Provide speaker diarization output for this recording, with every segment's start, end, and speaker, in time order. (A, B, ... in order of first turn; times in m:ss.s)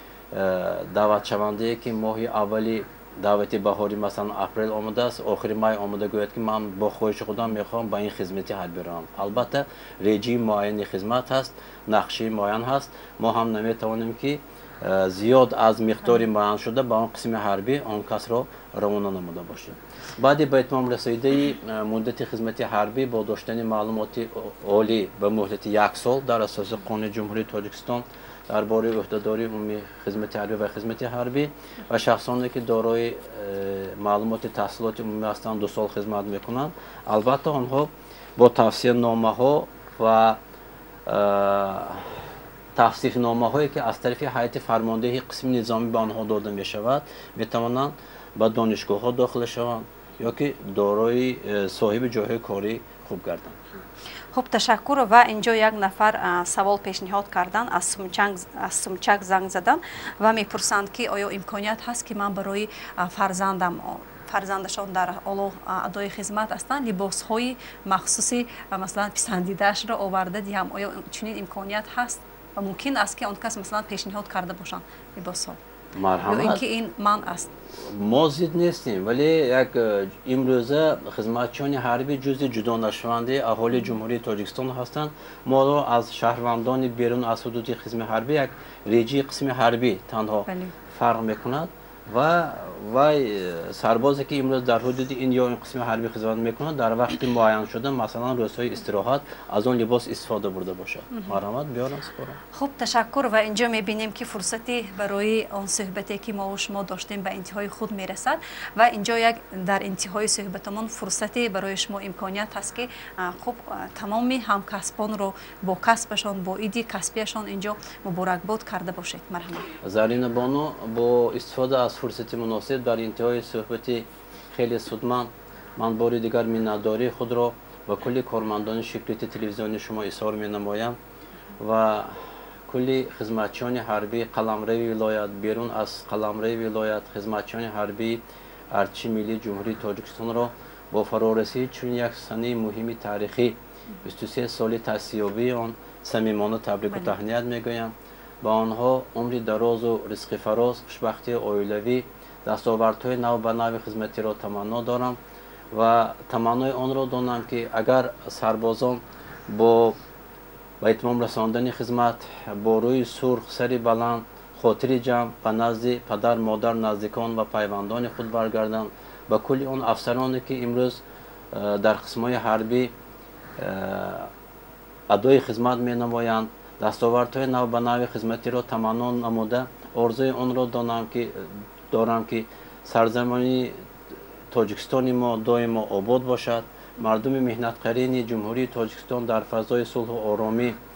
0:00.3-0:40.4 A
0:41.1-0:42.1 A
0:42.8-0:53.6 A
0:54.3-1:15.6 B
1:15.9-1:16.6 A
1:16.3-1:17.5 B
1:17.7-1:42.4 A
1:30.5-1:30.8 B
1:41.1-1:41.4 B
1:42.5-1:59.7 B
1:59.8-2:11.0 A
2:11.6-2:35.2 A
2:26.9-2:27.2 B
2:35.7-2:40.0 A
2:40.8-2:52.9 A
2:53.6-2:54.3 A
2:55.1-3:03.8 A
3:04.5-3:10.8 A